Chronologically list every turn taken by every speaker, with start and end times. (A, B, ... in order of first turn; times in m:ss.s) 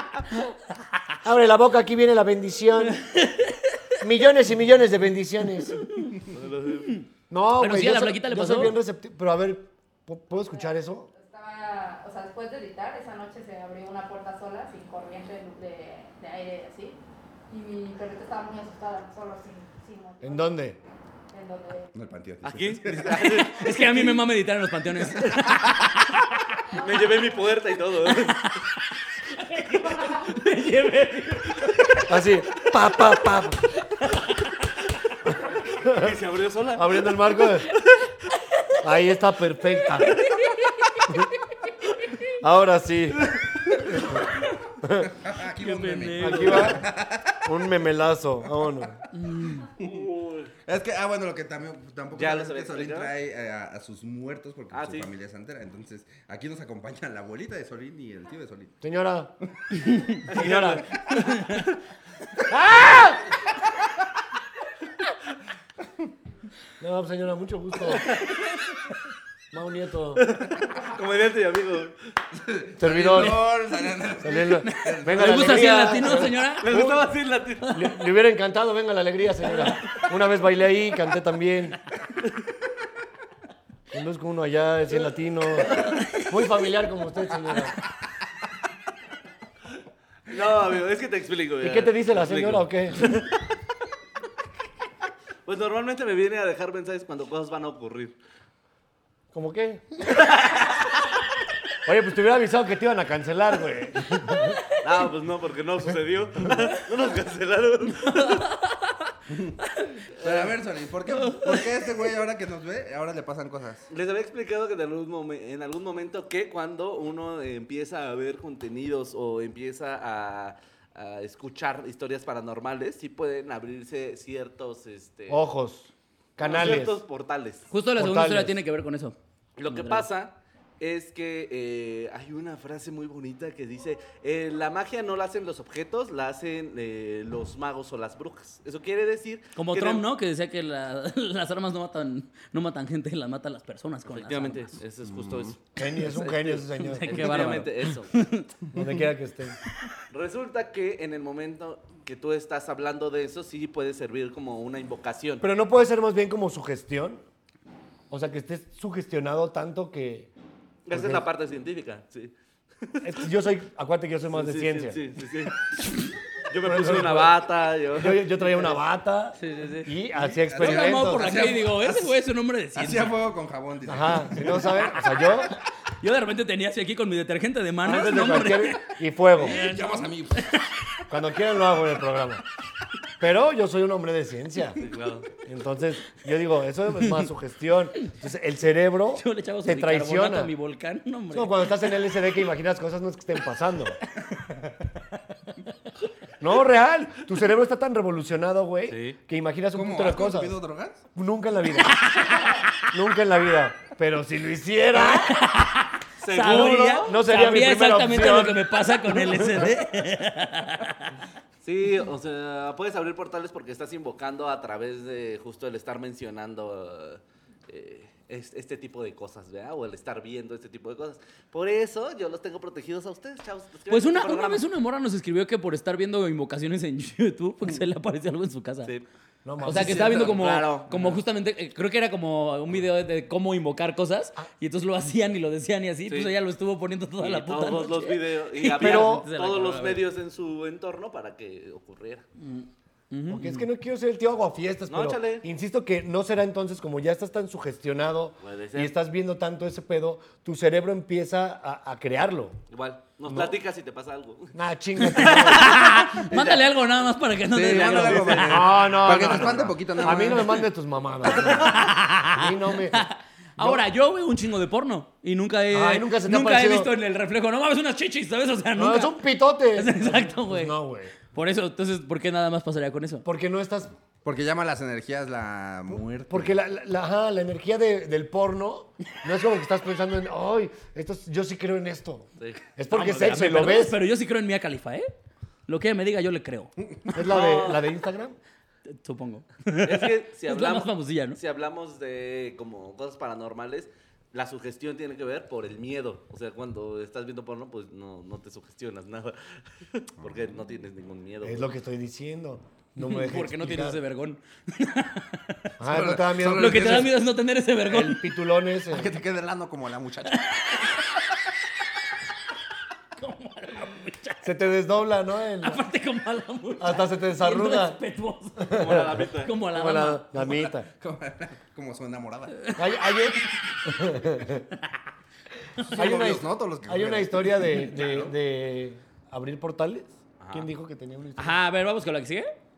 0:01.2-0:03.1 A
0:03.0-0:03.7 B
0:04.0-0:05.9 A
0:06.3-0:07.0 C
0:07.3-0:11.1 A
0:07.6-0:08.8 B
0:10.5-0:17.0 D
0:17.5-0:20.6 D
0:20.2-0:20.8 A
0:21.3-0:21.9 D
0:21.9-0:23.4 E
0:22.4-0:24.1 C
0:23.1-0:26.4 B
0:26.7-0:28.4 C
0:28.2-0:31.7 B
0:32.1-0:33.6 A
0:34.0-0:34.5 B
0:35.8-0:36.1 A
0:35.8-0:37.4 C
0:36.8-0:37.7 A
0:38.8-0:40.3 A
0:42.4-0:43.4 A
0:43.5-0:44.2 E
0:44.0-0:44.2 A
0:44.8-0:45.1 A
0:45.0-0:47.5 E
0:45.6-0:46.8 B
0:46.2-0:46.9 A
0:47.4-0:49.0 A
0:48.6-0:49.0 E
0:49.1-0:49.7 B
0:49.8-0:50.1 E
0:49.8-0:50.5 C
0:50.7-0:58.8 E
0:52.1-0:53.1 C
0:54.7-0:55.1 C
0:58.8-0:59.3 A
0:59.9-1:00.2 B
1:00.3-1:00.8 A
1:00.3-1:01.7 C
1:01.2-1:01.6 B
1:02.5-1:03.2 A
1:06.8-1:08.2 A
1:08.0-1:08.6 B
1:09.5-1:10.2 A
1:10.2-1:11.9 C
1:12.3-1:15.9 E
1:12.8-1:13.4 A
1:14.2-1:17.1 A
1:14.6-1:16.7 B
1:16.6-1:17.8 C
1:17.7-1:21.8 A
1:23.9-1:27.8 A
1:25.7-1:26.3 B
1:30.3-1:33.3 C
1:31.6-1:33.0 A
1:35.5-1:38.2 C
1:39.3-1:40.1 A
1:40.2-1:40.8 C
1:41.8-1:44.6 A
1:44.8-1:48.5 C
1:48.0-1:49.1 B
1:49.3-1:49.6 E
1:49.7-1:50.0 B
1:50.2-1:53.9 E
1:50.2-1:50.6 C
1:51.1-1:51.6 B
1:53.9-2:05.4 C
2:05.3-2:07.0 A
2:06.4-2:07.7 C
2:07.7-2:10.1 B
2:08.0-2:08.6 A
2:09.6-2:20.0 C
2:19.6-2:24.7 B
2:24.1-2:28.2 C
2:25.0-2:25.6 E
2:25.8-2:27.4 A
2:26.8-2:28.5 B
2:28.7-2:29.6 A
2:30.1-2:35.5 C
2:35.4-2:37.2 A
2:38.1-2:40.3 A
2:40.9-2:43.3 C
2:40.9-2:41.2 A
2:43.0-2:45.0 A
2:44.3-2:45.6 C
2:46.5-2:48.8 C
2:46.6-2:47.4 A
2:47.9-2:51.4 A
2:49.4-2:49.9 B
2:50.4-2:52.2 E
2:50.5-2:53.2 B
2:52.7-2:54.9 E
2:53.9-2:55.6 A
2:56.0-2:58.8 B
2:57.8-2:59.6 A
2:59.4-3:00.5 E
2:59.4-3:00.7 B
3:01.1-3:02.4 A
3:03.2-3:04.8 A
3:04.8-3:05.3 C
3:05.4-3:10.5 A
3:09.2-3:11.7 B
3:11.3-3:14.0 A
3:16.4-3:20.6 A
3:18.9-3:19.2 C
3:19.7-3:21.1 E
3:21.2-3:22.2 A
3:22.8-3:25.4 A
3:25.0-3:31.1 B
3:26.2-3:27.2 C
3:26.6-3:29.7 A
3:31.6-3:44.6 C
3:43.9-3:48.9 B
3:49.4-3:50.3 A
3:49.6-4:00.0 B
3:49.6-3:50.4 E
3:50.3-3:51.2 C
3:57.2-4:02.2 C
3:58.8-3:59.3 A
4:02.4-4:03.7 B
4:03.3-4:12.6 A
4:04.9-4:05.4 C
4:08.4-4:08.9 C
4:12.7-4:14.5 C
4:13.3-4:13.5 A
4:14.5-4:15.9 A
4:15.0-4:18.6 B
4:15.1-4:16.8 C
4:17.5-4:20.7 E
4:17.6-4:20.3 C
4:18.4-4:23.8 A
4:21.2-4:21.5 E
4:21.6-4:33.2 B
4:25.7-4:26.9 A
4:28.8-4:31.1 A
4:33.2-4:33.9 A
4:34.2-4:36.6 E
4:35.9-4:44.0 A
4:42.9-4:45.1 B
4:45.7-4:46.7 B
4:47.1-4:48.4 A
4:47.2-4:47.9 C
4:48.9-4:51.4 B
4:49.8-5:01.7 C
5:01.4-5:04.0 A
5:03.0-5:05.7 B
5:05.8-5:07.1 A
5:05.8-5:07.1 E
5:06.4-5:08.2 B
5:07.9-5:09.1 A
5:08.9-5:10.8 E
5:10.3-5:11.2 B
5:13.2-5:14.6 B
5:14.4-5:15.8 A
5:15.6-5:20.3 B
5:16.8-5:18.0 A
5:18.6-5:20.9 A
5:18.7-5:19.5 C
5:20.4-5:22.6 E
5:22.6-5:23.9 B
5:22.8-5:24.7 A
5:25.9-5:28.4 E
5:25.9-5:31.6 A
5:30.4-5:30.7 C
5:31.4-5:32.5 B